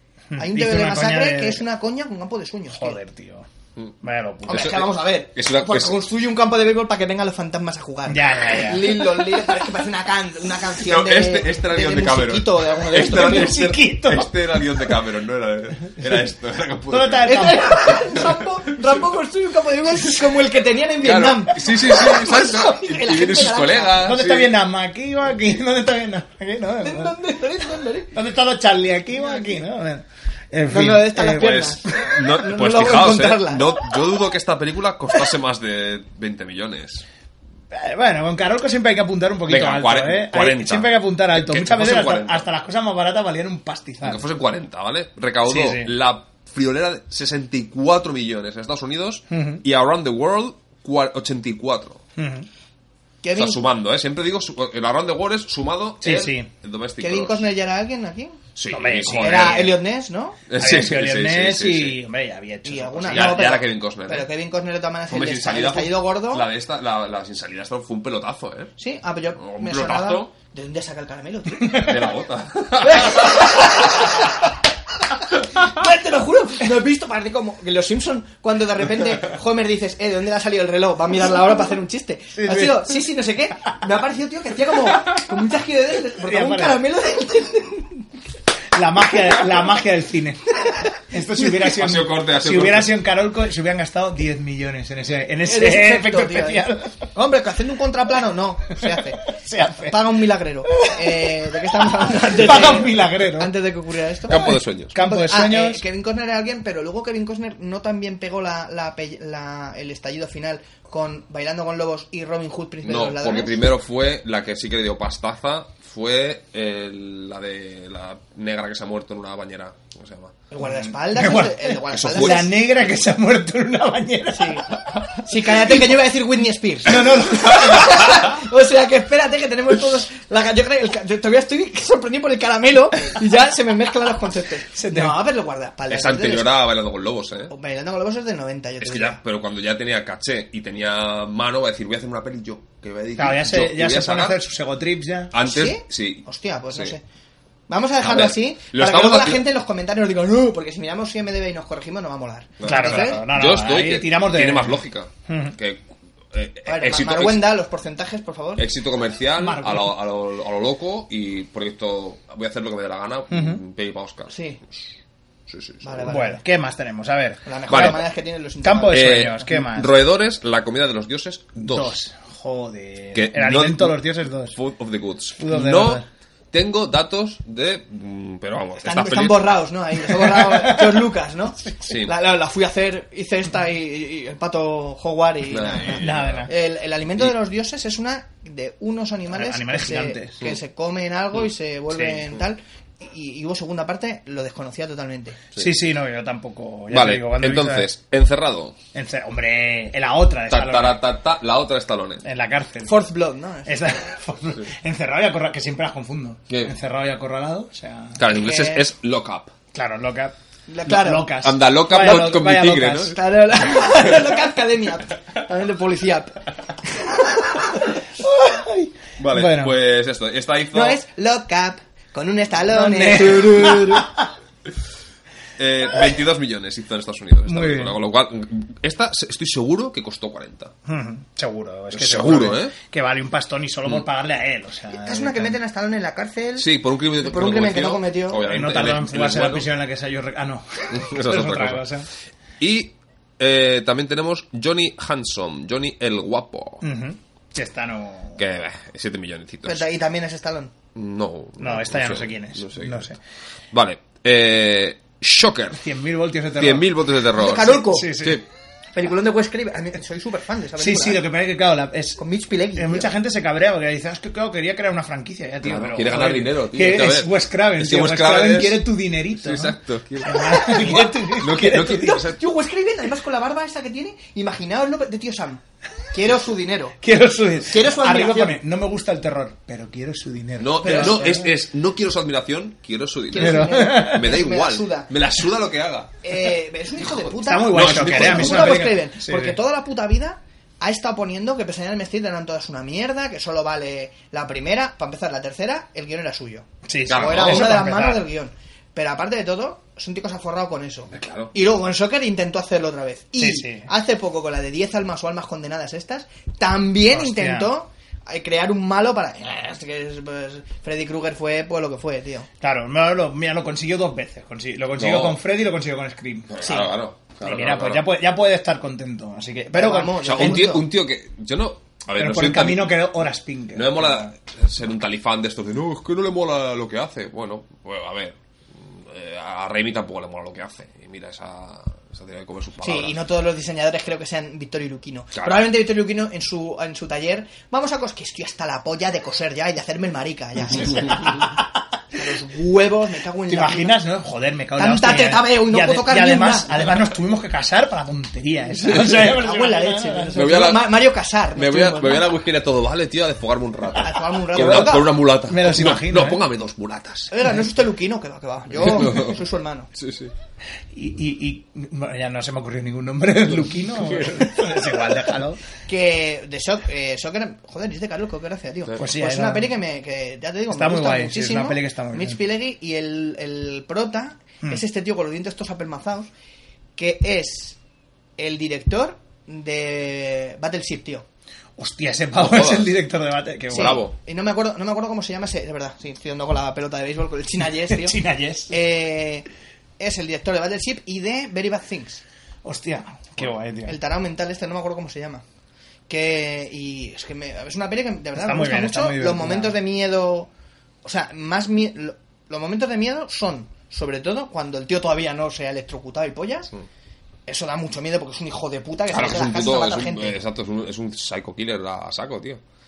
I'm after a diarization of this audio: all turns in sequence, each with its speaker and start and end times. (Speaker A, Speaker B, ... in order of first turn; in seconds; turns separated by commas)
Speaker A: 0.3-1.6, Speaker B: 0.4-3.0, Speaker A: 2.7-3.5, Speaker A: 4.0-4.8, Speaker B: 4.5-13.6, Speaker C: 4.5-6.0, Speaker A: 8.1-9.2, Speaker C: 10.8-18.4, Speaker A: 12.9-14.6, Speaker A: 16.9-17.9, Speaker B: 17.2-24.0, Speaker C: 21.0-24.5, Speaker A: 24.0-27.1, Speaker B: 26.8-28.1, Speaker A: 28.1-31.7, Speaker B: 29.2-29.6, Speaker B: 30.7-33.8, Speaker C: 31.4-37.0, Speaker A: 37.7-44.2, Speaker C: 39.5-42.5, Speaker C: 44.0-52.0, Speaker A: 45.5-45.9, Speaker A: 49.3-49.6, Speaker A: 52.2-52.5, Speaker B: 53.2-53.6, Speaker C: 53.3-57.5, Speaker A: 56.0-56.5, Speaker B: 57.0-58.4, Speaker C: 58.5-59.7, Speaker A: 58.7-59.8, Speaker B: 59.1-60.4, Speaker C: 60.5-62.0, Speaker A: 60.6-63.5, Speaker B: 62.6-66.5, Speaker C: 63.1-64.3, Speaker C: 65.1-68.7, Speaker B: 68.8-72.0, Speaker C: 69.3-70.3, Speaker C: 71.8-73.7, Speaker B: 72.8-74.3, Speaker B: 75.5-88.0, Speaker A: 82.3-82.9, Speaker A: 86.2-86.8, Speaker A: 88.7-97.0, Speaker C: 91.4-92.9, Speaker B: 95.5-99.3, Speaker A: 99.3-100.0, Speaker B: 99.8-113.6, Speaker A: 100.7-101.3, Speaker A: 102.0-103.5, Speaker C: 104.3-104.9, Speaker A: 104.3-105.8, Speaker C: 112.8-120.3, Speaker B: 120.5-122.5, Speaker A: 120.6-125.5, Speaker C: 121.9-122.5, Speaker B: 124.3-136.5, Speaker A: 126.9-128.2, Speaker A: 134.7-135.2, Speaker C: 135.9-137.5, Speaker B: 137.5-139.2, Speaker C: 138.8-144.4, Speaker A: 143.2-145.3, Speaker C: 145.3-146.9, Speaker B: 145.4-147.0, Speaker B: 147.7-153.2, Speaker C: 148.0-149.4, Speaker C: 152.6-157.5, Speaker A: 152.6-155.6, Speaker B: 156.7-158.7, Speaker C: 158.6-164.3, Speaker A: 159.4-159.9, Speaker A: 163.3-163.6, Speaker B: 164.3-164.6, Speaker C: 165.5-166.1, Speaker B: 165.8-166.4, Speaker A: 166.1-168.0, Speaker B: 167.4-169.3, Speaker C: 167.7-168.0, Speaker A: 168.6-169.9, Speaker C: 168.9-171.9, Speaker A: 171.6-174.6, Speaker C: 173.1-179.6, Speaker A: 175.4-176.1, Speaker B: 178.8-195.4, Speaker C: 181.8-182.1, Speaker C: 185.5-186.5, Speaker A: 185.9-186.5, Speaker A: 189.3-190.4, Speaker A: 195.6-197.9, Speaker C: 196.9-198.8, Speaker A: 198.9-201.0, Speaker C: 200.5-202.2, Speaker A: 202.2-203.0, Speaker B: 202.8-204.0, Speaker A: 203.7-208.2, Speaker C: 208.2-209.5, Speaker B: 208.3-208.8, Speaker A: 209.7-210.3, Speaker B: 210.7-211.3, Speaker A: 210.8-213.2, Speaker C: 211.4-213.2, Speaker B: 213.1-217.8, Speaker A: 218.2-219.7, Speaker C: 219.2-221.0, Speaker B: 220.7-224.1, Speaker A: 222.7-224.2, Speaker C: 225.6-230.7, Speaker A: 227.5-227.9, Speaker A: 230.9-235.6, Speaker C: 231.9-232.7, Speaker B: 234.9-238.4, Speaker C: 236.6-239.7, Speaker A: 238.4-242.1, Speaker C: 240.9-241.9, Speaker C: 242.6-246.8, Speaker A: 246.8-248.4, Speaker C: 248.4-249.8, Speaker B: 249.6-250.7, Speaker C: 250.9-253.1, Speaker A: 251.6-253.2, Speaker C: 253.7-255.8, Speaker A: 255.7-256.9, Speaker C: 256.6-258.4, Speaker B: 257.3-258.2, Speaker A: 257.9-258.4, Speaker B: 258.9-261.2, Speaker A: 260.8-262.2, Speaker B: 262.2-263.1, Speaker A: 262.8-272.2, Speaker C: 265.6-272.4, Speaker B: 271.8-275.6, Speaker B: 276.1-277.0, Speaker A: 277.0-281.5, Speaker B: 277.7-278.6, Speaker C: 280.6-286.2, Speaker B: 280.8-281.3, Speaker B: 283.3-285.1, Speaker A: 283.4-284.2, Speaker B: 286.2-312.5, Speaker C: 287.0-288.9, Speaker A: 287.4-289.6, Speaker A: 296.9-298.2, Speaker C: 297.1-297.8, Speaker C: 301.1-301.5, Speaker A: 303.4-303.9, Speaker A: 307.1-307.7, Speaker A: 312.6-316.9, Speaker C: 315.0-315.4, Speaker C: 316.5-318.1, Speaker A: 317.4-320.8, Speaker B: 319.7-320.9, Speaker C: 320.2-323.1, Speaker A: 322.1-324.3, Speaker C: 323.7-333.2, Speaker B: 332.8-341.6, Speaker C: 335.3-335.6, Speaker A: 340.7-341.8, Speaker B: 342.1-344.0, Speaker A: 343.5-350.4, Speaker B: 344.8-347.0, Speaker B: 348.8-352.3, Speaker C: 348.9-349.2, Speaker C: 350.3-357.3, Speaker B: 353.9-355.2, Speaker A: 354.6-356.4, Speaker B: 357.3-359.9, Speaker C: 358.8-359.4, Speaker C: 359.9-360.3, Speaker A: 360.9-365.6, Speaker C: 364.1-364.5, Speaker B: 365.9-376.3, Speaker A: 369.0-369.7, Speaker A: 370.7-372.4, Speaker B: 377.0-377.8, Speaker B: 378.4-381.2, Speaker A: 381.8-384.0, Speaker C: 382.4-382.9, Speaker C: 383.7-384.1, Speaker B: 383.7-388.2, Speaker A: 387.9-388.8, Speaker B: 388.7-389.4, Speaker B: 390.0-392.2, Speaker A: 392.6-394.0, Speaker B: 393.8-395.4, Speaker B: 396.1-400.5, Speaker A: 398.4-399.8, Speaker B: 401.0-406.7, Speaker B: 407.5-410.4, Speaker C: 409.1-412.6